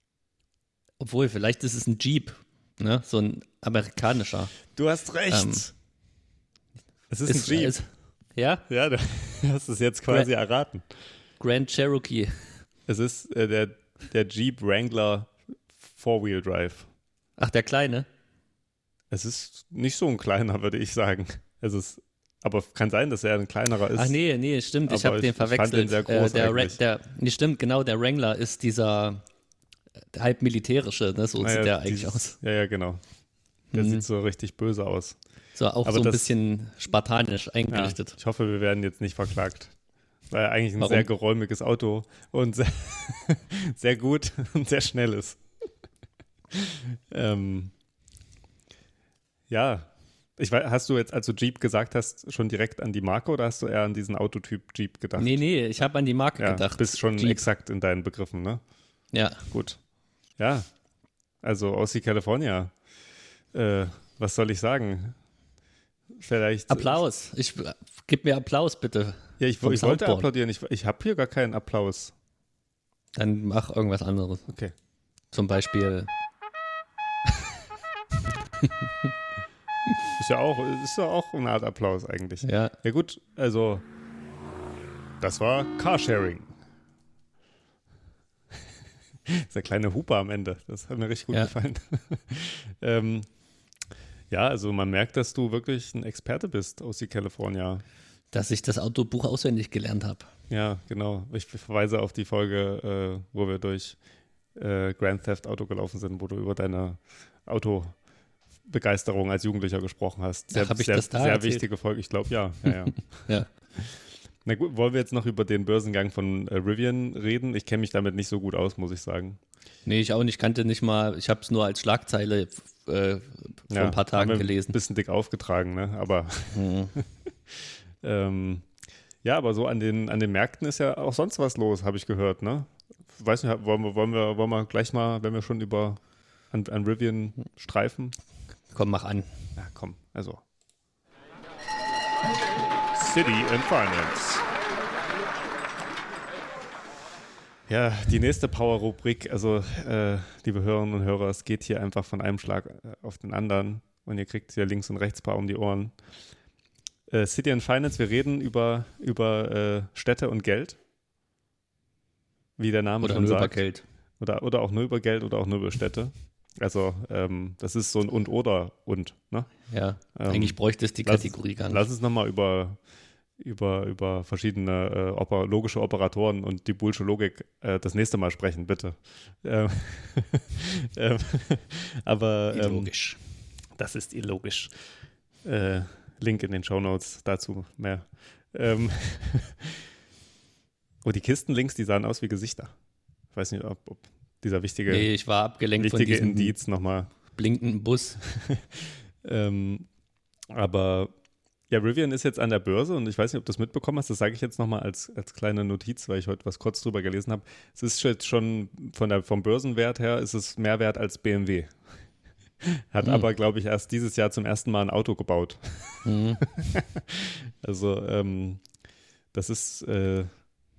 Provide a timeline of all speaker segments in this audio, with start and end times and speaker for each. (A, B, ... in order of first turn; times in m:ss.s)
0:01.0-0:04.6 A
0:04.7-0:05.7 B
0:05.3-0:05.6 A
0:07.1-0:07.8 B
0:07.3-0:08.6 A
0:08.7-0:10.8 B
0:11.4-0:12.6 A
0:12.9-0:15.3 B
0:15.9-0:16.9 B
0:17.4-0:18.1 A
0:19.1-0:24.2 B
0:23.9-0:29.2 A
0:24.9-0:26.8 B
0:30.1-0:32.4 A
0:31.4-0:33.0 B
0:33.7-0:34.0 A
0:33.7-0:35.2 B
0:35.6-0:38.2 A
0:35.8-0:36.3 B
0:37.7-0:39.7 B
0:40.3-0:45.4 B
0:40.8-0:41.1 A
0:46.5-0:47.7 B
0:49.5-0:55.4 B
0:55.2-0:57.4 A
0:56.4-0:58.6 B
0:59.1-0:59.4 A
0:59.5-0:59.8 B
1:00.4-1:00.7 B
1:01.4-1:02.7 B
1:03.5-1:05.2 B
1:06.2-1:07.0 B
1:06.7-1:10.3 A
1:09.4-1:12.1 B
1:13.2-1:14.4 A
1:14.5-1:14.7 B
1:15.3-1:16.1 A
1:20.2-1:23.8 B
1:22.4-1:22.8 A
1:25.2-1:26.5 B
1:29.3-1:33.3 B
1:34.3-1:37.8 B
1:38.3-1:40.3 A
1:40.5-1:44.0 B
1:44.6-1:48.0 B
1:48.7-1:59.4 B
1:50.5-1:51.6 A
1:59.9-2:04.8 A
2:03.7-2:07.0 B
2:06.5-2:06.9 A
2:08.0-2:08.7 B
2:09.2-2:18.2 B
2:18.7-2:19.3 A
2:19.6-2:20.4 B
2:23.0-2:24.4 B
2:27.7-2:36.0 B
2:37.1-2:40.8 B
2:42.6-2:43.6 B
2:43.0-2:43.8 A
2:44.2-2:49.5 B
2:49.7-2:51.8 A
2:50.2-2:52.8 B
2:53.4-3:02.9 B
3:02.5-3:03.2 A
3:03.8-3:04.7 B
3:05.4-3:09.8 B
3:11.0-3:12.7 B
3:13.3-3:15.1 B
3:14.9-3:16.6 A
3:15.8-3:17.1 B
3:17.4-3:18.2 A
3:18.3-3:19.9 B
3:20.5-3:21.1 B
3:21.7-3:31.8 B
3:32.6-3:38.6 B
3:36.0-3:36.4 A
3:39.3-3:40.3 B